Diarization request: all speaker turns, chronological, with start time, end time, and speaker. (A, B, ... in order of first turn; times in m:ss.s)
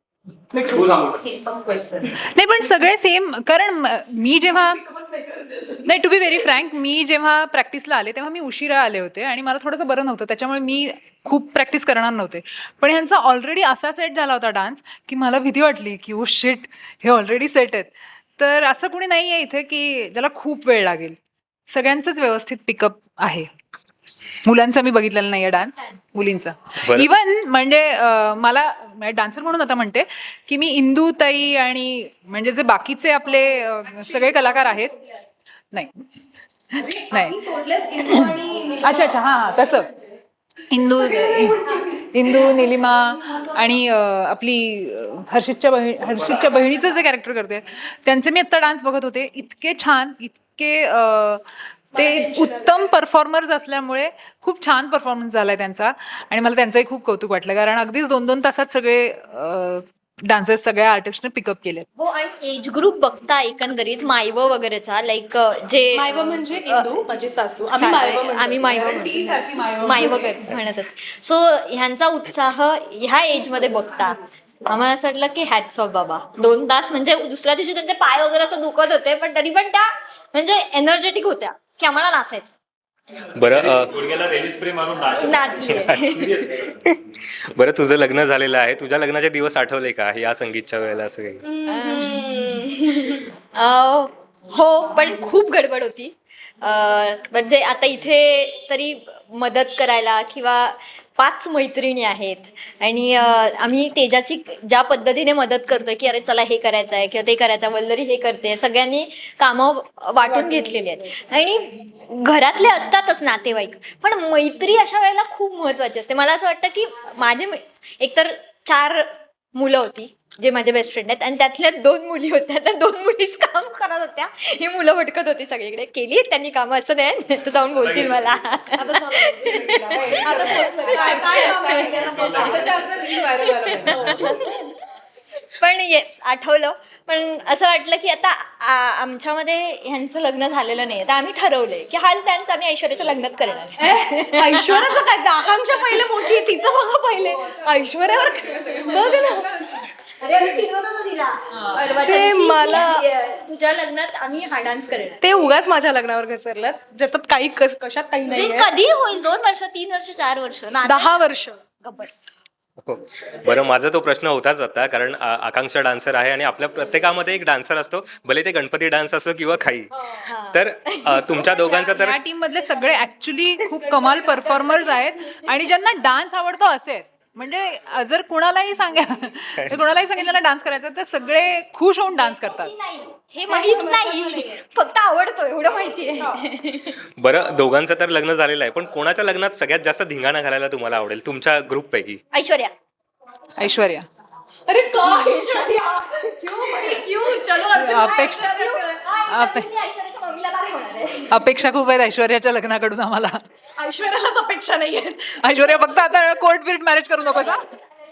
0:00.5-0:02.1 A
0:00.6-0:01.3 B
0:02.3-0:04.8 C
0:04.5-0:05.9 A
0:05.8-0:21.2 C
0:21.7-0:23.5 C
0:24.4-0:34.9 C
0:26.8-0:27.1 D
0:34.1-0:34.6 A
0:35.7-0:36.0 C
0:36.8-0:37.4 C
0:36.8-0:39.2 A
0:38.0-0:39.9 C
0:40.7-1:01.9 C
0:41.0-0:42.7 A
0:52.0-0:52.9 A
1:02.0-1:07.0 E
1:05.9-1:08.7 A
1:07.7-1:22.5 E
1:08.7-1:10.6 C
1:23.4-1:23.9 D
1:23.4-1:26.8 B
1:25.2-1:26.3 E
1:26.6-1:26.9 D
1:27.6-1:31.4 D
1:31.4-1:32.8 A
1:31.7-2:14.6 E
2:07.8-2:08.3 B
2:08.8-2:12.7 A
2:09.5-2:10.7 B
2:10.8-2:14.0 C
2:11.8-2:13.0 B
2:13.9-2:14.6 A
2:13.9-2:14.3 B
2:15.6-2:25.0 E
2:23.8-2:29.5 A
2:25.7-2:26.8 E
2:27.3-2:29.9 C
2:28.9-2:29.2 E
2:30.2-2:35.5 E
2:31.5-2:32.0 C
2:32.0-2:33.0 A
2:35.2-2:38.7 A
2:38.3-2:41.2 E
2:40.8-2:41.6 A
2:41.8-2:42.3 E
2:42.8-2:49.9 D
2:49.9-2:50.3 A
2:50.2-2:51.6 E
2:50.5-2:52.2 D
2:51.3-2:52.0 A
2:52.0-3:02.7 C
2:52.7-2:53.1 A
2:53.7-2:55.0 A
3:02.1-3:07.0 E
3:03.5-3:04.6 A
3:07.2-3:12.2 D
3:12.3-3:12.7 E
3:13.6-3:14.1 C
3:14.7-3:19.1 A
3:15.0-3:15.8 E
3:17.8-3:18.5 C
3:17.8-3:21.4 E
3:19.3-3:19.7 C
3:21.3-3:23.4 C
3:23.8-3:25.4 A
3:25.4-3:27.7 C